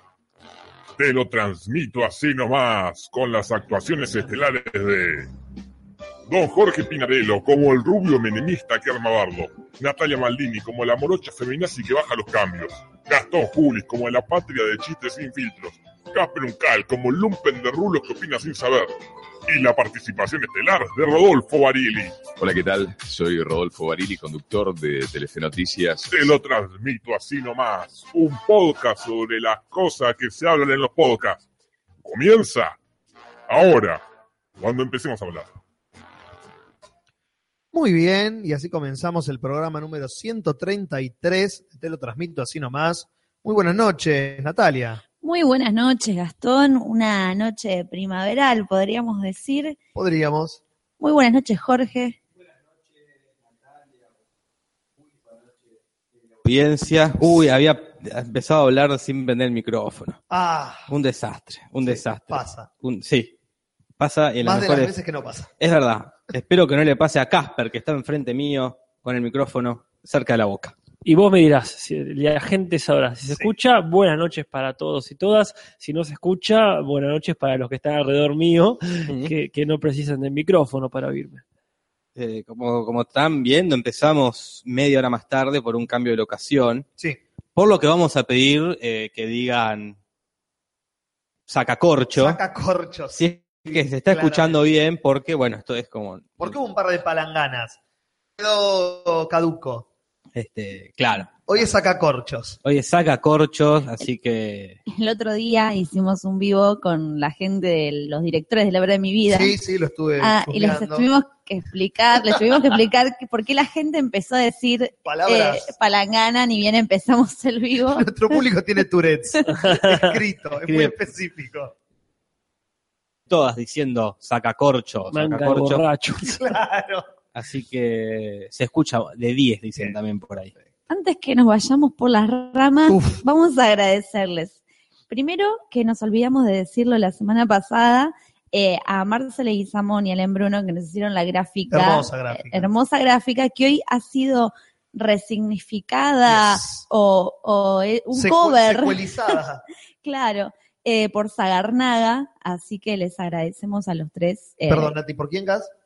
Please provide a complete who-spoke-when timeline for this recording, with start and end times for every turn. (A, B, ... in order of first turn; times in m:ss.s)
0:01.0-0:05.3 A
0:06.3-0:19.0 A
0:19.5-0:22.3 A
0:22.4-0:26.2 B
0:26.1-0:31.4 A
0:32.0-0:32.8 A
0:33.5-0:34.0 A
0:34.6-0:35.5 A
0:37.7-0:45.0 C
0:45.2-0:49.8 D
0:50.0-0:50.6 C
0:51.0-0:52.2 D
0:56.4-1:00.2 E
1:00.3-1:00.9 C
1:00.9-1:03.3 E
1:01.8-1:02.7 C
1:04.0-1:04.9 E
1:04.4-1:05.5 C
1:05.6-1:10.8 E
1:11.0-1:21.4 F
1:19.1-1:19.3 E
1:22.2-1:26.8 E
1:27.6-1:30.0 E
1:31.5-1:32.4 E
1:32.2-1:34.6 C
1:33.2-1:36.6 E
1:36.4-1:37.8 C
1:38.4-1:39.9 C
1:40.4-1:41.6 E
1:41.5-1:42.6 C
1:42.6-1:44.8 E
1:44.9-1:49.6 D
1:49.3-1:51.1 C
1:50.2-1:58.1 D
1:55.0-1:55.7 C
1:57.9-2:01.8 C
1:59.7-2:00.0 F
2:00.7-2:00.9 E
2:03.3-2:05.8 E
2:05.1-2:06.4 F
2:06.2-2:07.0 C
2:07.4-2:10.5 E
2:10.9-2:14.6 D
2:12.9-2:13.2 C
2:15.1-2:29.0 D
2:21.7-2:22.7 C
2:26.3-2:26.8 C
2:28.1-2:29.6 C
2:30.0-2:35.0 D
2:34.7-2:35.7 C